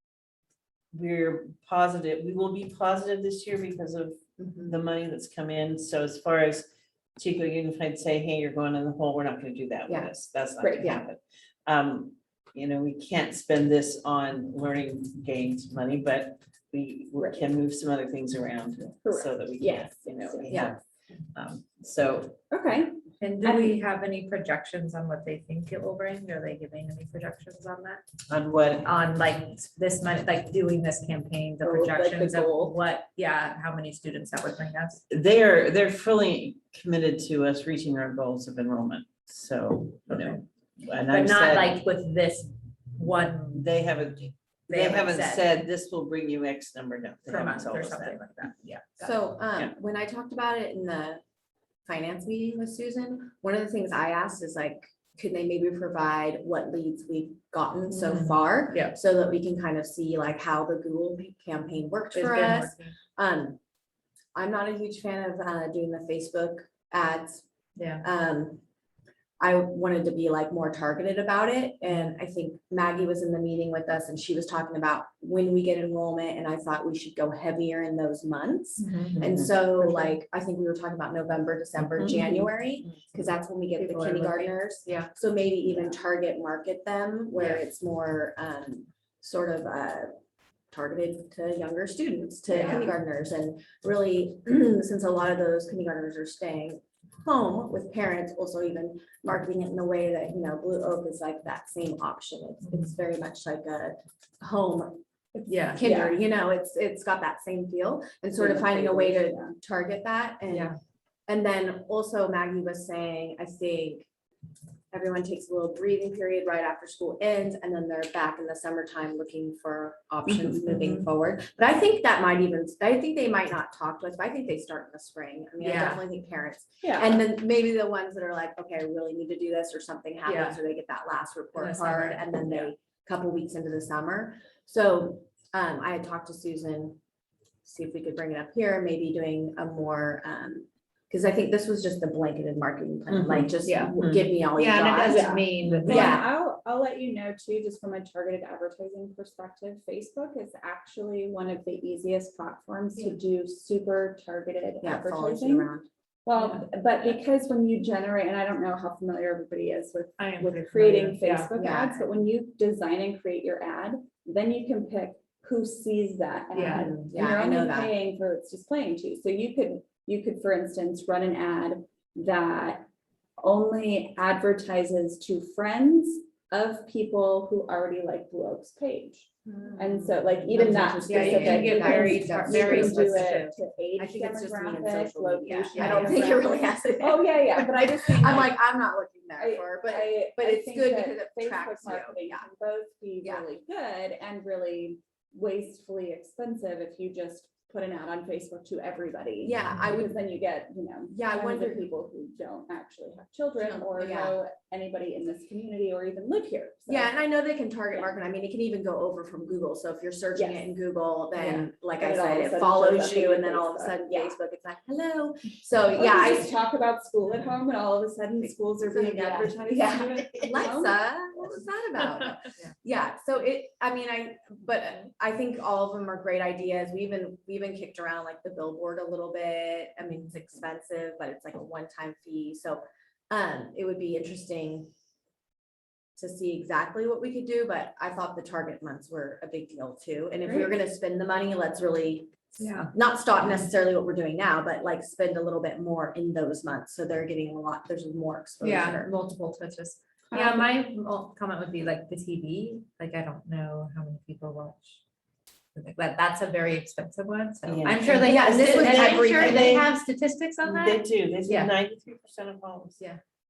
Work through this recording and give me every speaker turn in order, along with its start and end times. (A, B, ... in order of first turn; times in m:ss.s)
0:00.9-0:20.8 A
0:04.4-0:04.7 B
0:10.6-0:10.9 C
0:17.2-0:17.5 C
0:19.0-0:20.7 C
0:21.3-0:22.4 A
0:22.5-0:23.8 C
0:23.2-0:28.0 D
0:28.3-0:28.9 A
0:28.8-0:35.0 D
0:31.6-0:32.8 C
0:35.1-0:41.8 A
0:41.1-0:43.7 D
0:43.5-0:48.2 A
0:44.7-0:45.4 D
0:47.3-0:49.2 D
0:49.0-0:51.2 B
0:51.9-1:03.6 B
0:57.9-0:59.0 D
1:02.1-1:02.9 D
1:04.4-1:07.4 B
1:07.8-1:08.0 D
1:08.0-1:08.6 B
1:09.4-1:30.1 B
1:18.8-1:19.2 D
1:19.2-1:19.5 A
1:19.8-1:20.1 D
1:23.8-1:25.1 D
1:30.7-1:45.0 B
1:32.5-1:32.9 D
1:32.6-1:32.9 C
1:45.4-1:46.2 C
1:45.5-1:45.8 D
1:45.8-1:50.7 B
1:48.4-1:49.6 C
1:50.5-1:50.8 D
1:51.3-1:54.1 B
1:54.9-2:17.0 B
2:05.6-2:06.0 D
2:06.8-2:07.2 C
2:10.3-2:10.6 D
2:11.6-2:12.7 D
2:17.6-2:26.3 B
2:23.1-2:24.3 A
2:23.6-2:23.9 D
2:24.6-2:26.1 D
2:25.1-2:35.7 C
2:25.6-2:26.1 A
2:34.8-2:35.9 B
2:36.2-3:08.6 C
2:40.2-2:41.5 D
2:41.6-2:42.1 B
2:46.5-2:46.9 D
2:46.6-2:47.9 B
3:00.3-3:12.5 B
3:00.6-3:03.5 D
3:04.4-3:04.9 D
3:05.7-3:06.3 D
3:09.4-3:27.1 C
3:19.4-3:20.2 B
3:21.1-3:21.9 B
3:23.6-3:24.4 B
3:26.9-3:36.5 B
3:30.4-3:30.7 C
3:31.5-3:34.4 C
3:35.9-3:41.0 C
3:38.8-3:54.9 B
3:56.2-4:09.1 B
4:00.4-4:00.7 C
4:02.6-4:02.9 D
4:08.6-4:15.0 D
4:10.3-4:10.7 C
4:15.8-4:21.7 D
4:17.6-4:20.0 A
4:18.1-4:19.8 B
4:20.6-4:23.0 A